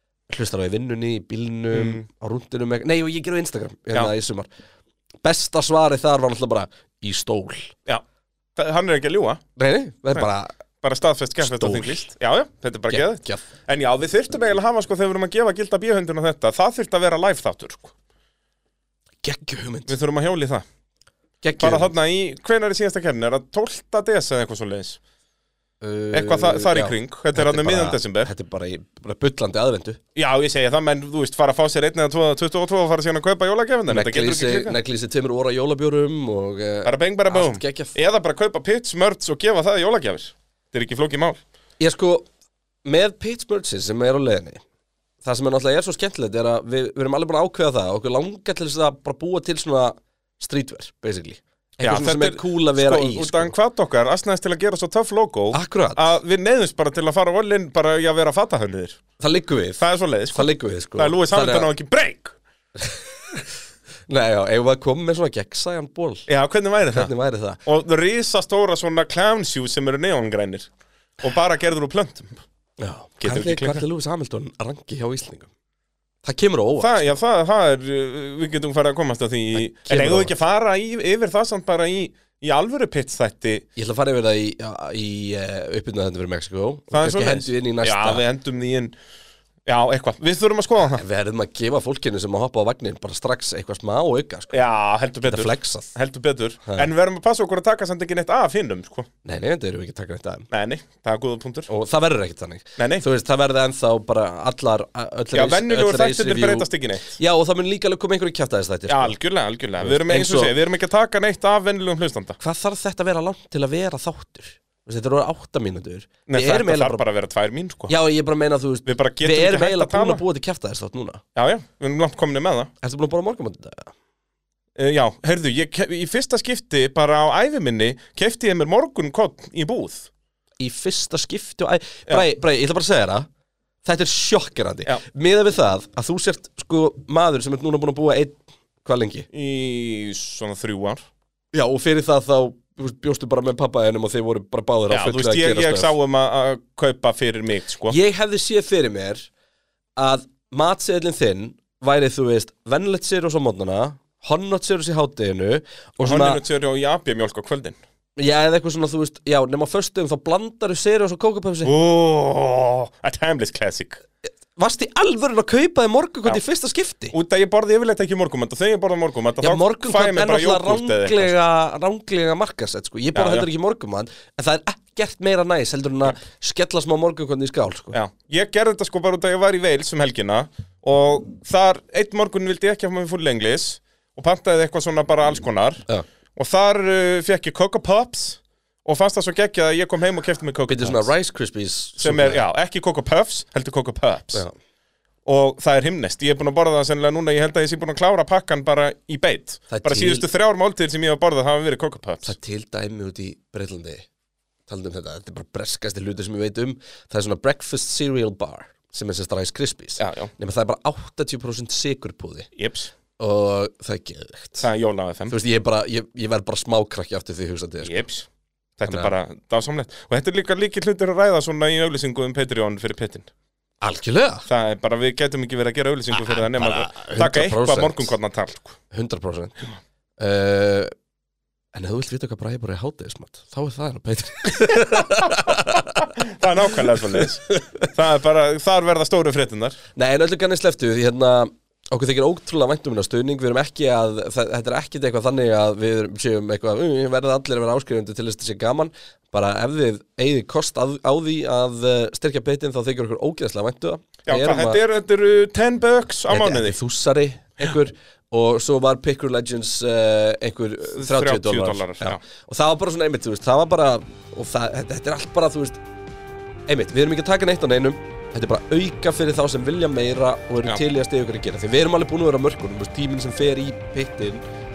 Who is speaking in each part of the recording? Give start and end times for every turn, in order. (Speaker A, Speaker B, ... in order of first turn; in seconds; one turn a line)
Speaker A: 0.3-4.5
Speaker B: 1.7-2.0
Speaker A: 5.2-7.7
Speaker B: 8.6-9.4
Speaker A: 9.6-10.5
Speaker B: 10.8-17.9
Speaker A: 11.4-12.1
Speaker A: 12.9-13.4
Speaker A: 19.2-19.9
Speaker B: 19.9-20.6
Speaker A: 21.4-21.9
Speaker B: 21.6-25.0
Speaker A: 25.8-30.0
Speaker B: 26.1-28.3
Speaker B: 30.2-34.8
Speaker A: 33.9-38.0
Speaker B: 36.8-41.4
Speaker A: 41.8-42.3
Speaker A: 42.9-44.6
Speaker A: 45.2-53.5
Speaker B: 51.8-59.0
Speaker A: 55.5-56.1
Speaker A: 59.2-59.8
Speaker B: 59.8-62.4
Speaker A: 60.3-61.7
Speaker A: 62.8-63.5
Speaker A: 64.1-66.3
Speaker B: 66.3-67.1
Speaker A: 66.9-67.6
Speaker B: 67.7-72.4
Speaker A: 72.8-75.5
Speaker B: 73.2-73.8
Speaker A: 76.2-77.0
Speaker B: 76.8-83.6
Speaker A: 79.5-80.4
Speaker A: 83.8-88.2
Speaker B: 86.9-89.0
Speaker B: 89.7-91.0
Speaker A: 90.8-94.7
Speaker B: 94.5-99.1
Speaker A: 95.2-95.9
Speaker A: 99.2-100.5
Speaker B: 100.5-101.7
Speaker A: 101.7-109.2
Speaker B: 102.8-103.0
Speaker B: 105.3-107.2
Speaker B: 108.9-112.4
Speaker A: 109.8-110.6
Speaker A: 112.4-117.0
Speaker B: 116.3-117.9
Speaker A: 117.9-121.2
Speaker B: 118.8-120.2
Speaker B: 121.4-122.7
Speaker A: 122.8-123.9
Speaker B: 124.8-130.1
Speaker A: 130.6-133.3
Speaker A: 133.8-139.3
Speaker B: 139.3-141.1
Speaker A: 141.5-145.9
Speaker B: 144.9-148.0
Speaker A: 147.9-149.3
Speaker A: 150.0-156.4
Speaker B: 156.0-157.8
Speaker A: 158.2-161.7
Speaker B: 161.7-164.0
Speaker A: 164.6-167.2
Speaker B: 167.1-171.4
Speaker A: 169.4-178.0
Speaker B: 173.2-173.5
Speaker B: 177.9-185.8
Speaker B: 186.4-191.1
Speaker A: 190.7-192.4
Speaker B: 192.0-194.4
Speaker B: 195.2-202.3
Speaker A: 199.7-200.3
Speaker A: 202.2-204.1
Speaker A: 204.7-212.5
Speaker B: 210.0-210.3
Speaker B: 212.6-212.9
Speaker A: 213.2-214.7
Speaker B: 214.6-215.3
Speaker A: 215.3-218.0
Speaker B: 217.8-218.3
Speaker B: 218.8-223.3
Speaker A: 218.8-219.1
Speaker A: 223.8-224.5
Speaker B: 224.5-228.8
Speaker A: 226.1-228.2
Speaker A: 228.9-229.6
Speaker A: 230.2-230.9
Speaker A: 231.7-236.1
Speaker B: 234.8-239.8
Speaker A: 237.4-237.8
Speaker A: 240.0-254.8
Speaker B: 254.3-256.8
Speaker A: 256.3-265.8
Speaker B: 260.9-262.2
Speaker A: 266.7-274.4